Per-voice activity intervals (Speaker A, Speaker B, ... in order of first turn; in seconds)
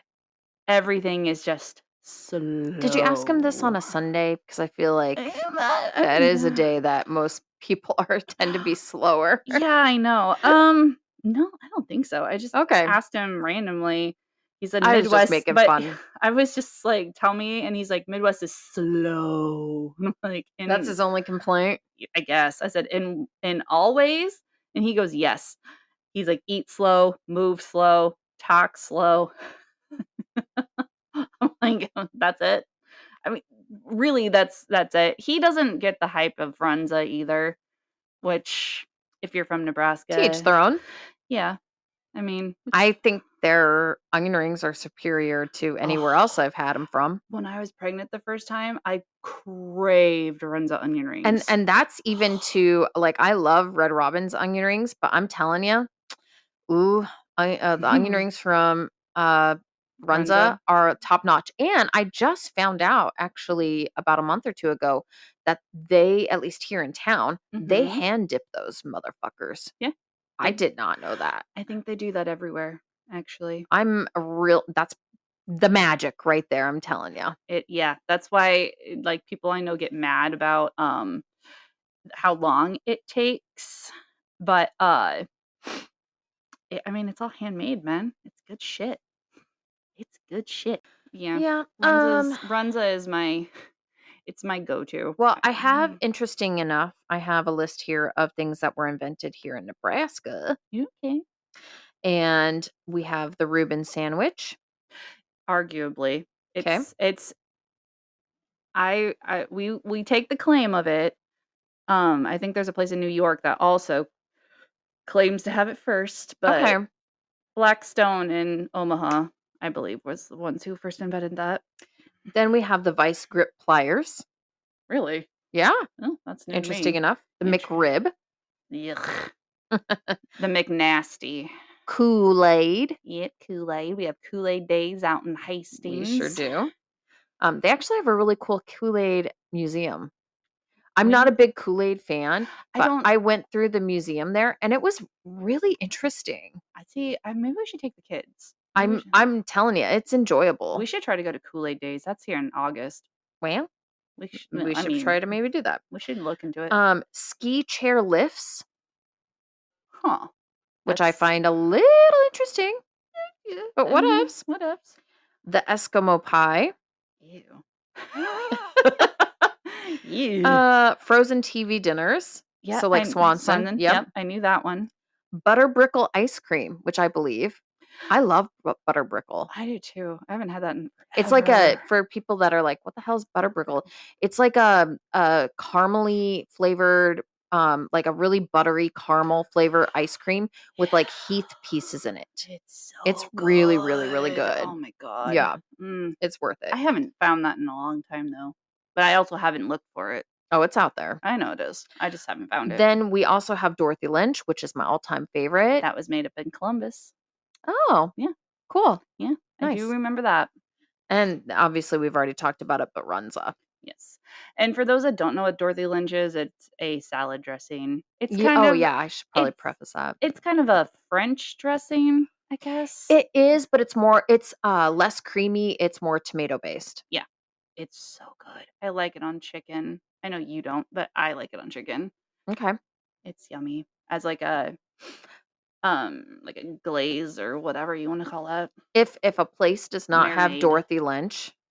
Speaker A: 0.7-3.8, 5.2-6.6, 9.5-21.0, 22.0-25.6, 26.1-29.3, 30.4-32.7, 33.2-37.6, 38.2-40.5, 41.3-41.6, 42.1-42.6, 47.3-51.5, 57.8-58.2, 60.1-60.6, 67.5-68.0, 69.8-70.6, 71.6-73.7, 77.5-81.2, 82.2-85.3, 86.7-89.0, 90.0-93.5, 94.3-96.0, 100.7-101.2, 105.5-107.3, 108.8-111.2, 111.9-114.1, 115.1-116.8, 117.6-121.6, 124.9-125.3, 126.0-127.8, 128.7-129.3, 130.4-131.5, 133.1-136.4, 141.0-141.3, 142.7-143.1, 146.8-149.2, 150.7-153.1, 154.2-155.2, 155.9-156.8, 160.0-160.3, 160.9-161.2, 163.3-165.0, 167.2-170.6, 172.6-174.9, 179.5-181.8, 192.5-196.2, 196.7-200.2, 201.2-202.8, 205.8-207.1, 209.1-210.5, 213.8-219.6, 220.2-223.1, 227.8-232.1, 233.2-234.8, 235.8-238.7, 240.1-240.8
Speaker B: 2.8-5.3, 6.0-9.6, 12.5-13.0, 14.8-16.0, 20.7-21.8, 40.1-40.8, 42.7-47.2, 51.2-55.9, 56.7-69.7, 70.4-71.5, 73.7-75.0, 75.5-77.4, 91.3-92.4, 95.2-100.6, 102.0-104.6, 106.6-106.9, 116.5-116.9, 122.3-124.2, 125.5-125.8, 126.5-128.1, 129.7-130.2, 131.9-133.0, 135.8-136.7, 137.4-140.1, 141.0-146.6, 148.8-150.8, 153.4-153.7, 154.4-155.8, 156.7-158.6, 160.9-162.8, 163.8-164.4, 165.4-166.7, 170.4-174.1, 175.3-179.5, 181.2-192.5, 193.1-194.7, 195.2-195.6, 196.2-196.8, 200.5-201.2, 202.7-205.8, 207.7-208.1, 208.7-209.0, 209.6-209.9, 211.1-213.6, 218.3-220.2, 223.1-227.0, 232.5-232.8, 238.9-241.5